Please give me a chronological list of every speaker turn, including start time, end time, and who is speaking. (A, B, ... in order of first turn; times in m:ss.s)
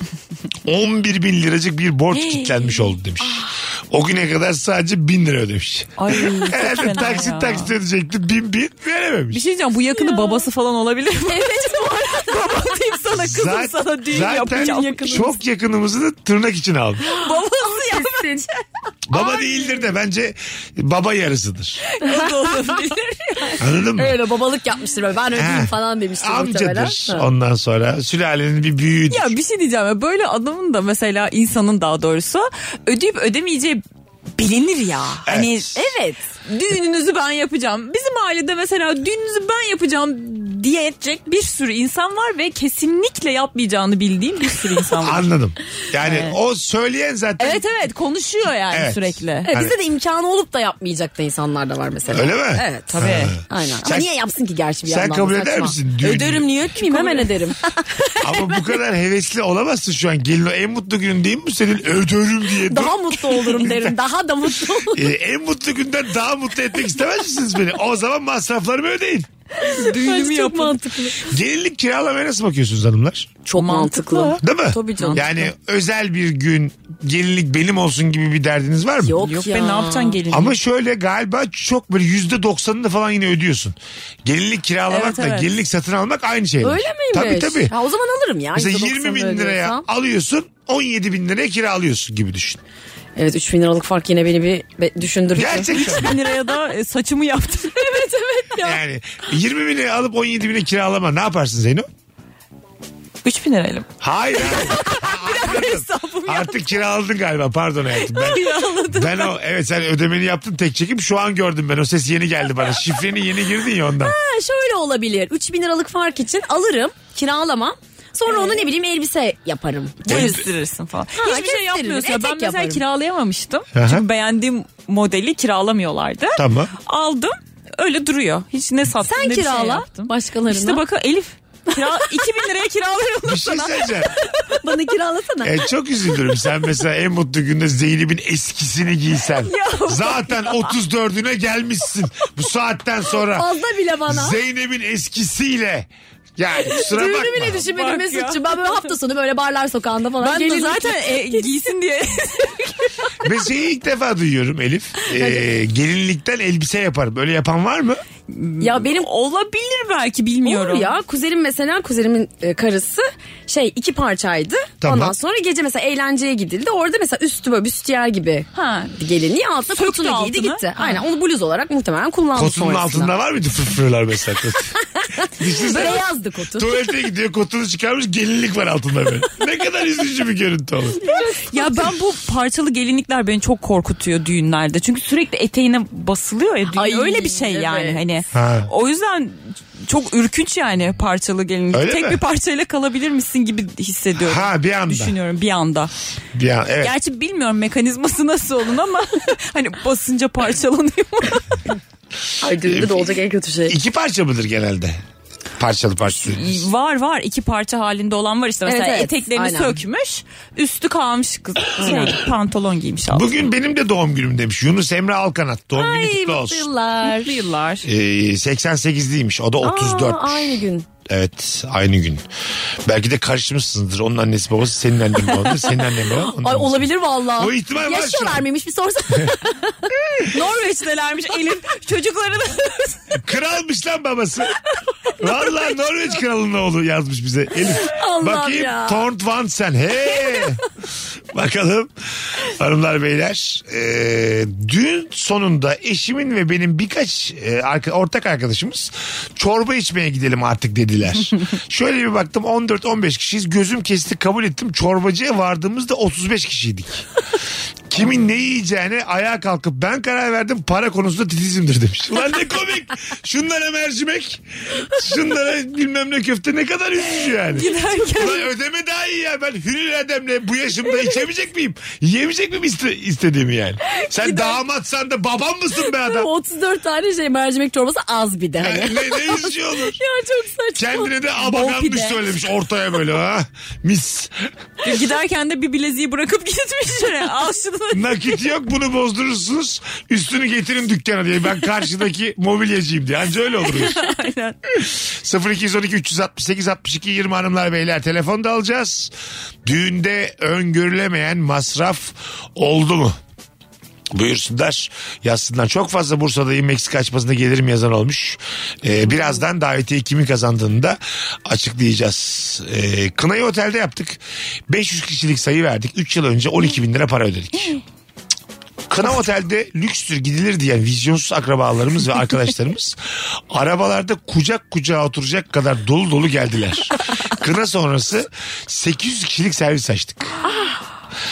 0:00.6-0:09.4 A
0:02.2-0:02.7 B
0:06.0-0:07.7 B
0:09.3-0:15.3 B
0:09.9-0:10.5 C
0:11.3-0:12.4 C
0:13.2-0:17.0 A
0:14.6-0:15.3 C
0:17.0-0:18.5 C
0:17.2-0:18.5 B
0:19.1-0:21.8 A
0:19.1-0:19.7 B
0:21.9-0:23.6 B
0:22.1-0:22.8 C
0:23.6-0:24.2 A
0:23.9-0:27.3 C
0:25.4-0:29.4 A
0:29.1-0:33.8 B
0:34.4-0:45.3 B
0:35.2-0:35.9 A
0:45.0-0:47.6 A
0:46.0-0:46.4 B
0:47.4-0:49.5 B
0:48.7-0:49.8 A
0:49.5-0:58.6 C
0:52.1-0:54.1 A
0:52.9-0:54.0 B
0:54.8-0:56.4 A
0:56.8-0:57.3 B
0:58.2-1:04.0 A
1:02.7-1:05.1 C
1:04.9-1:09.3 A
1:09.6-1:10.7 B
1:09.6-1:11.3 C
1:11.2-1:13.3 A
1:13.4-1:15.4 C
1:13.6-1:14.4 B
1:14.4-1:19.2 A
1:15.0-1:15.2 B
1:19.0-1:20.2 C
1:19.2-1:20.6 B
1:20.3-1:27.7 A
1:24.9-1:25.6 B
1:26.6-1:29.8 C
1:28.6-1:32.6 A
1:33.2-1:36.2 C
1:35.4-1:36.2 A
1:35.7-1:38.0 B
1:37.8-1:38.8 C
1:38.6-1:41.9 A
1:43.2-1:43.9 B
1:44.0-1:54.2 A
1:44.4-1:46.6 B
1:48.0-1:49.3 B
1:54.0-2:00.4 C
1:58.3-1:58.6 B
2:00.1-2:14.1 B
2:00.1-2:00.4 A
2:01.2-2:02.8 C
2:03.7-2:04.0 A
2:06.4-2:06.7 A
2:09.0-2:10.8 C
2:11.8-2:12.0 C
2:13.2-2:14.1 A
2:14.6-2:15.7 C
2:15.4-2:23.5 A
2:19.5-2:20.7 B
2:23.2-2:24.4 C
2:24.1-2:27.6 A
2:26.8-2:31.5 C
2:27.5-2:28.9 B
2:30.2-2:32.7 B
2:33.2-2:38.0 A
2:35.1-2:35.5 C
2:38.3-2:40.9 B
2:38.6-2:39.1 C
2:40.4-2:53.1 C
2:44.8-2:45.2 A
2:48.5-2:49.0 B
2:49.7-2:51.0 B
2:52.3-2:54.8 A
2:55.0-2:56.7 C
2:55.4-2:56.0 A
2:56.6-3:01.0 A
3:01.1-3:01.8 C
3:01.5-3:15.9 B
3:06.7-3:08.0 C
3:08.3-3:08.7 A
3:11.7-3:12.2 A
3:14.2-3:15.2 A
3:16.3-3:16.9 A
3:16.8-3:21.6 B
3:22.4-3:23.8 C
3:22.6-3:23.1 A
3:23.7-3:25.0 A
3:25.6-3:26.7 A
3:26.2-3:33.4 B
3:28.6-3:29.8 C
3:31.8-3:32.2 C
3:33.1-3:36.7 A
3:35.8-3:37.4 C
3:37.0-3:37.9 B
3:37.8-3:42.2 A
3:39.6-3:40.9 C
3:42.9-3:48.4 A
3:46.4-3:50.5 C
3:50.3-3:53.1 B
3:53.1-3:54.5 A
3:55.2-4:00.6 A
3:57.8-3:59.0 C
4:00.1-4:00.4 C
4:01.3-4:01.9 A
4:02.4-4:17.0 A
4:17.9-4:36.3 A
4:27.5-4:28.5 B
4:34.0-4:34.6 C
4:35.9-4:41.1 C
4:38.6-4:40.0 A
4:40.8-4:44.4 A
4:41.4-4:42.2 B
4:44.8-4:48.4 B
4:47.9-4:54.0 A
4:53.6-4:54.6 B
4:54.7-4:59.1 A
4:59.6-5:03.2 A
5:04.1-5:17.8 A
5:18.9-5:30.4 A